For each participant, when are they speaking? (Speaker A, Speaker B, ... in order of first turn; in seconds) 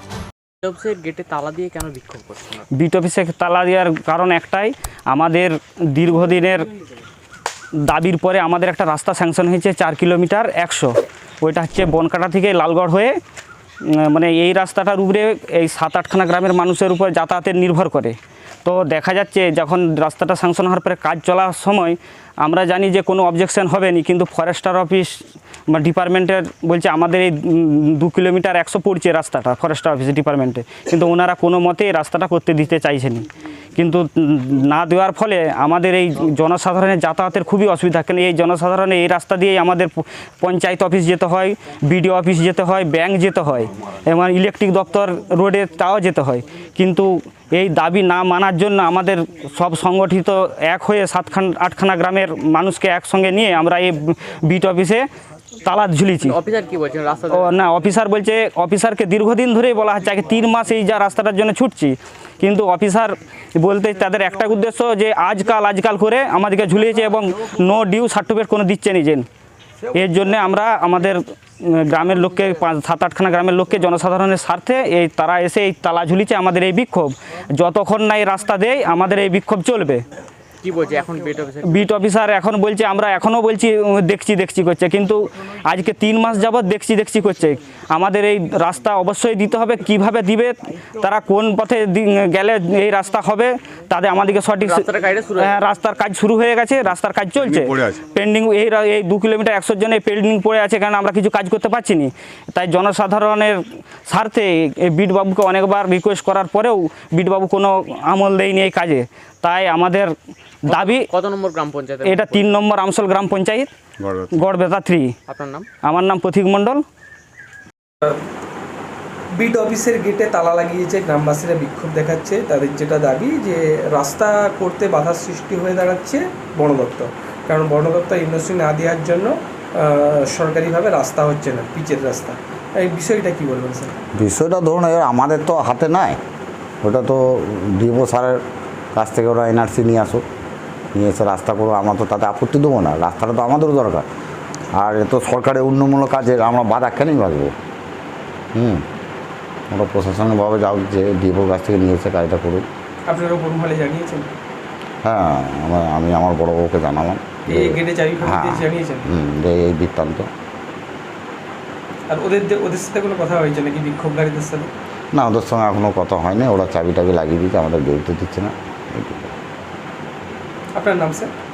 Speaker A: 0.6-2.6, 56.2-57.6, 80.6-81.9, 94.6-95.6, 110.7-112.6, 115.3-115.7
Speaker B: 2.7-6.7, 7.8-13.2, 13.8-55.1, 55.6-56.4, 57.3-69.2, 69.9-80.0, 81.6-110.1, 110.6-111.1, 112.0-113.7, 114.3-115.1, 115.8-116.8
Speaker C: 114.0-114.3, 134.2-136.2, 136.8-138.4, 138.9-140.2, 140.9-144.1, 144.8-147.5, 148.5-148.8, 149.7-152.7, 155.0-160.3, 165.1-169.3
Speaker D: 119.3-134.0, 153.1-154.3, 157.5-159.1, 162.1-164.7, 170.7-171.3